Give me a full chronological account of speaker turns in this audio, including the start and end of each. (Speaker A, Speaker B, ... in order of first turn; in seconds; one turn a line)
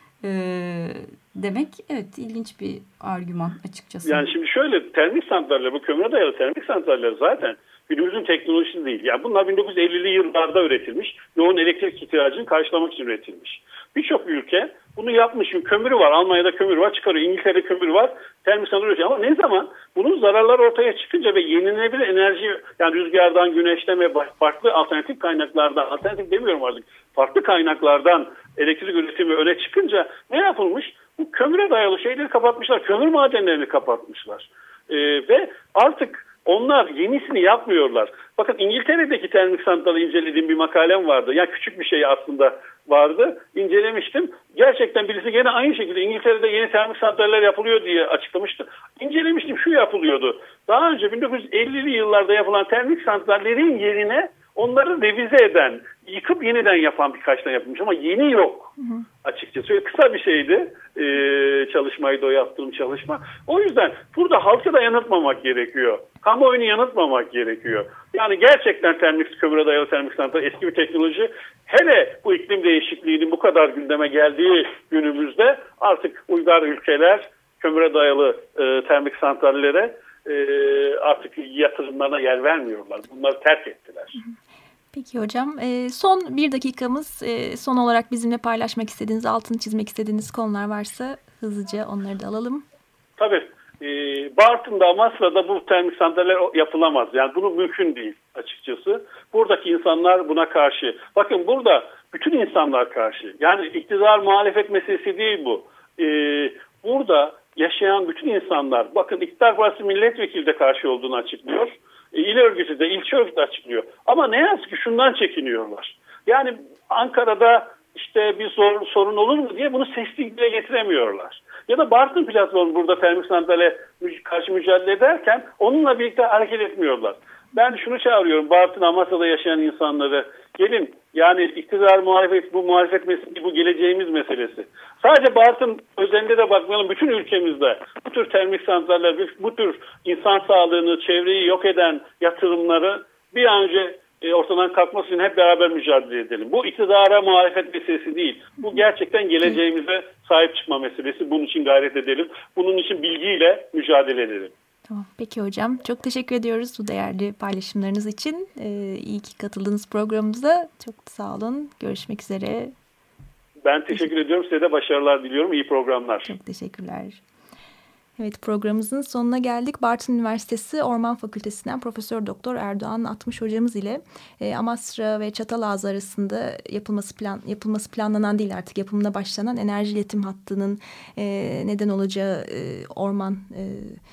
Speaker A: 0.2-4.3
Speaker B: 4.1-58.7
Speaker C: 58.8-59.0
Speaker B: 59.2-84.2
Speaker C: 84.9-92.7
Speaker B: 93.2-154.5
Speaker C: 154.9-162.7
Speaker B: 163.7-166.3
Speaker C: 166.2-167.2
Speaker C: 168.2-184.0